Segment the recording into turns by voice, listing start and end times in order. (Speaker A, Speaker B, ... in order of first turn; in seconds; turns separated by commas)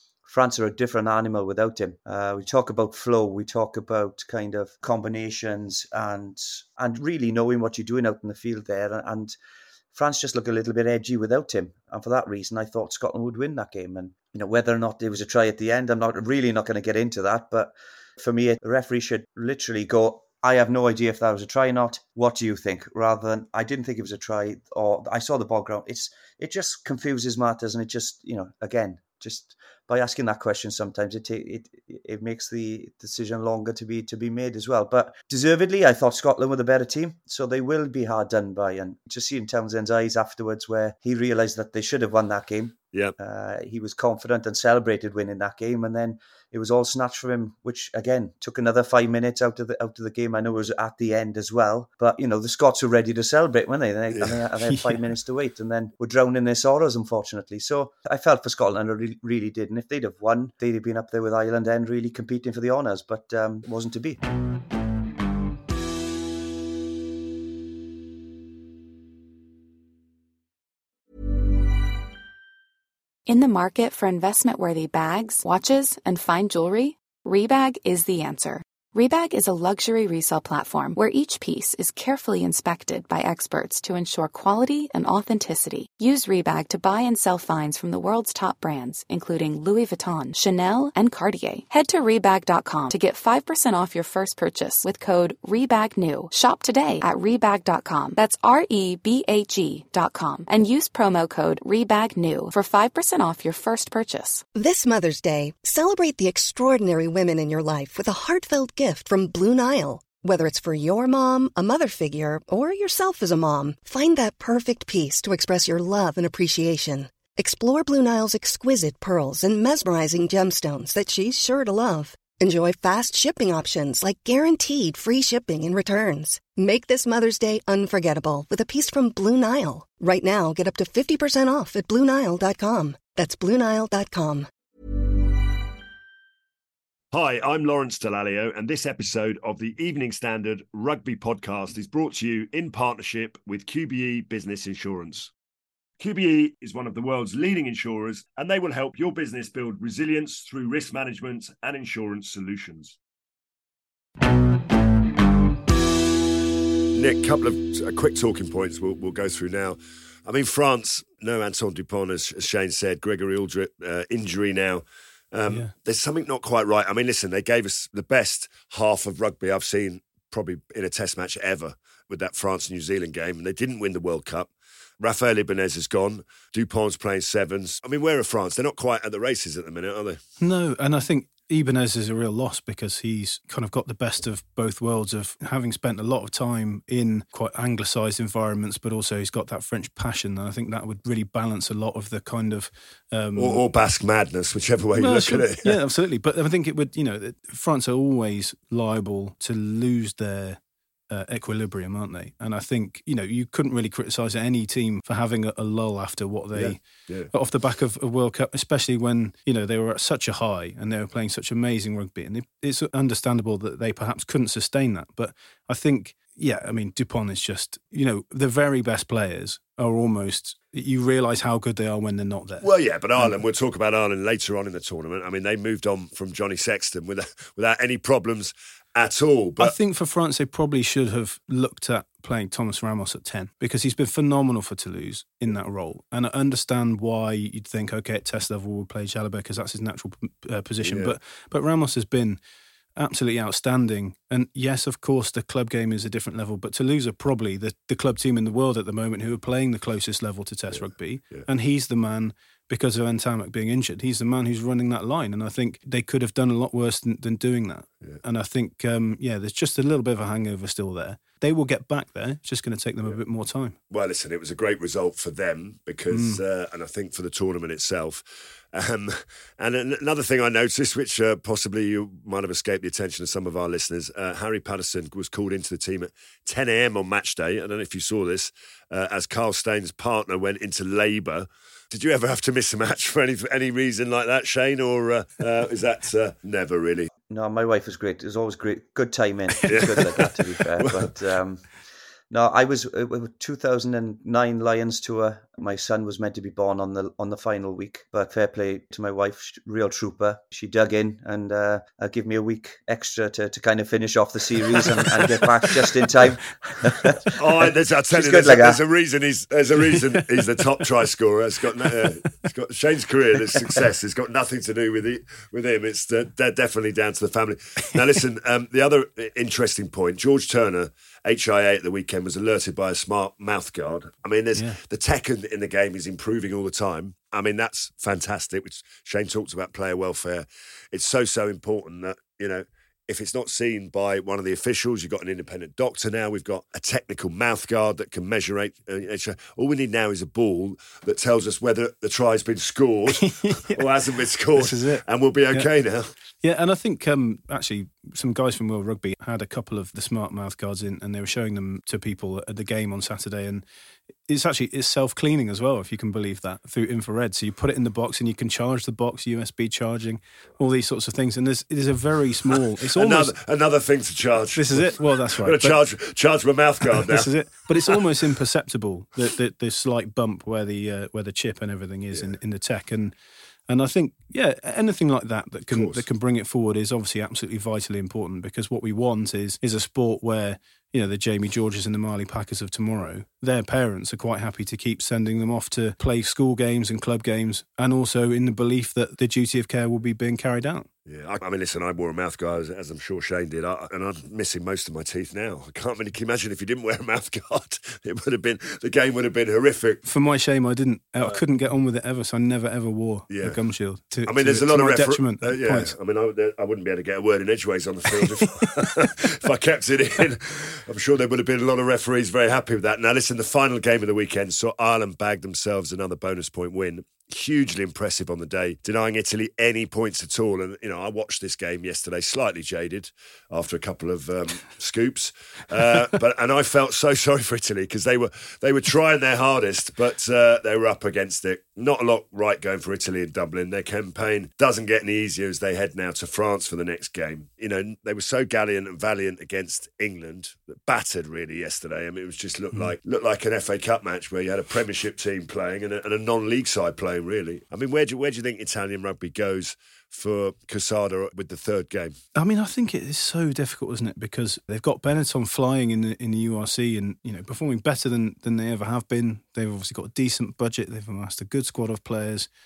Speaker A: 0.2-9.4, Speaker A: 9.9-64.2, Speaker B: 54.7-55.0, Speaker C: 73.3-104.4, Speaker D: 104.5-134.5, Speaker E: 137.1-145.3, Speaker E: 146.0-153.0, Speaker E: 156.9-180.2, Speaker B: 180.4-193.6, Speaker E: 193.4-195.8, Speaker B: 195.0-200.6, Speaker B: 201.1-223.4, Speaker E: 206.5-207.3, Speaker E: 222.6-229.8, Speaker B: 229.6-242.4, Speaker E: 240.8-241.2, Speaker B: 243.0-263.8, Speaker E: 250.7-251.5, Speaker E: 263.9-287.1, Speaker B: 266.1-266.4, Speaker A: 287.3-291.7, Speaker E: 289.7-291.1, Speaker A: 292.3-307.4, Speaker E: 307.2-346.1, Speaker A: 308.1-308.8, Speaker B: 324.6-324.8, Speaker B: 343.2-343.8, Speaker B: 344.6-345.7, Speaker B: 346.4-353.6, Speaker B: 354.3-363.4, Speaker E: 362.9-367.3, Speaker B: 364.6-365.8, Speaker B: 366.9-373.1, Speaker B: 373.7-390.9, Speaker E: 375.7-376.1, Speaker E: 391.1-400.0, Speaker B: 400.1-405.9, Speaker E: 403.3-403.6, Speaker E: 404.2-452.2, Speaker B: 408.2-409.1, Speaker B: 452.4-462.5